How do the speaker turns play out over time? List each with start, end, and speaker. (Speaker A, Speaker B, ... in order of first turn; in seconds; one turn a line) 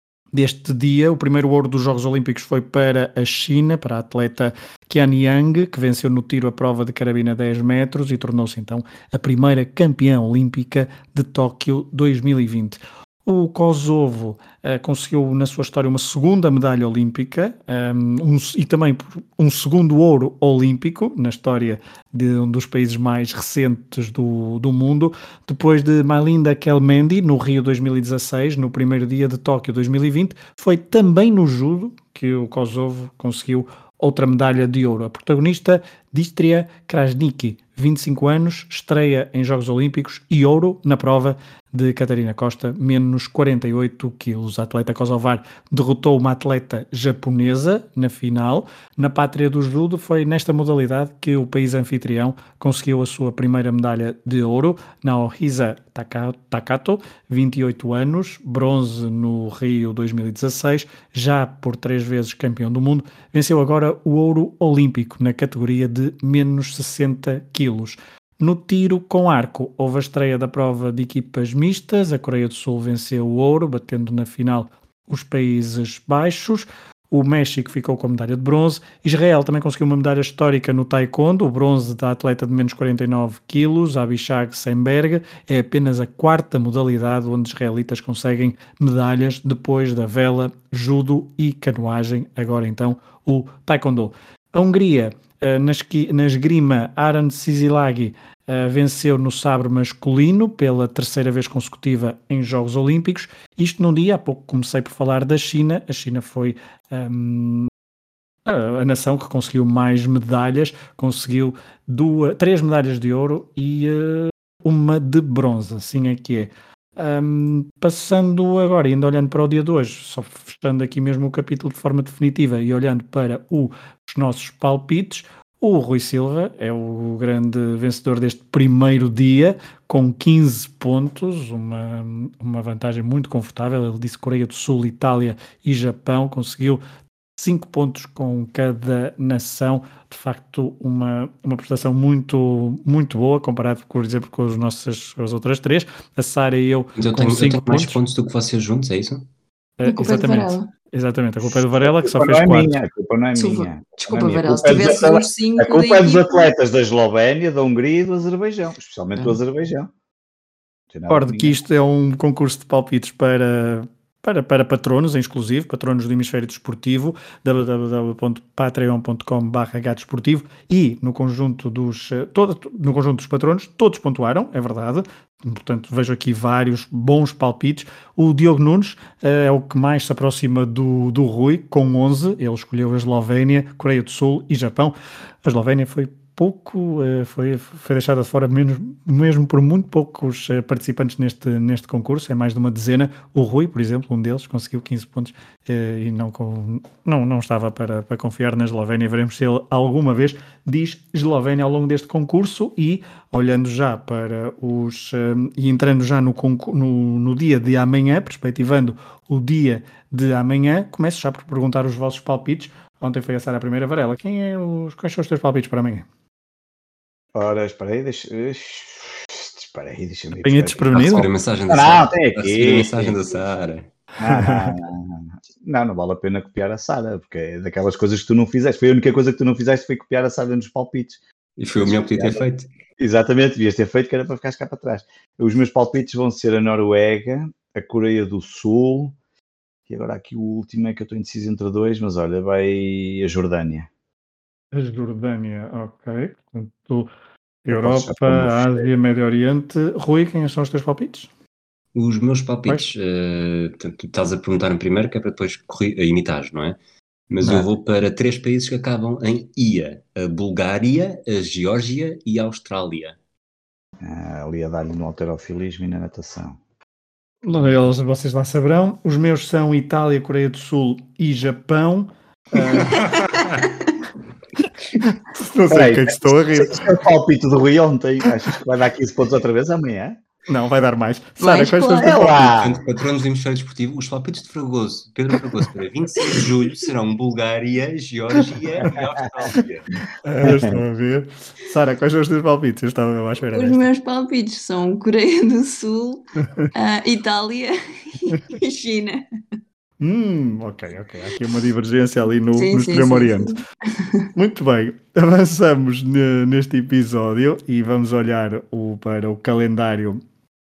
Speaker A: 0.3-107.7
Speaker A: 108.5-136.8
Speaker A: 137.4-148.0
Speaker B: 147.0-149.2
Speaker A: 149.8-152.8
Speaker C: 149.8-150.7
Speaker D: 151.4-159.9
Speaker C: 153.3-156.5
Speaker D: 160.9-161.6
Speaker A: 161.1-216.1
Speaker D: 217.3-223.2
Speaker A: 220.4-221.3
Speaker B: 220.9-223.9
Speaker D: 224.2-231.2
Speaker A: 224.3-224.7
Speaker B: 231.6-232.7
Speaker D: 231.8-232.4
Speaker D: 233.0-239.1
Speaker D: 239.9-243.9
Speaker A: 244.7-247.1
Speaker A: 247.7-251.3
Speaker D: 247.7-248.9
Speaker B: 251.9-256.8
Speaker B: 257.3-263.2
Speaker A: 257.4-257.7
Speaker D: 264.0-266.6
Speaker A: 267.4-273.3
Speaker C: 273.2-273.9
Speaker A: 275.0-276.9
Speaker D: 275.7-280.2
Speaker A: 280.5-282.4
Speaker C: 281.4-282.5
Speaker D: 282.0-282.8
Speaker B: 282.4-289.9
Speaker A: 290.2-293.8
Speaker D: 290.4-290.8
Speaker C: 293.5-299.2
Speaker A: 300.0-303.6
Speaker C: 302.6-304.3
Speaker A: 304.3-310.2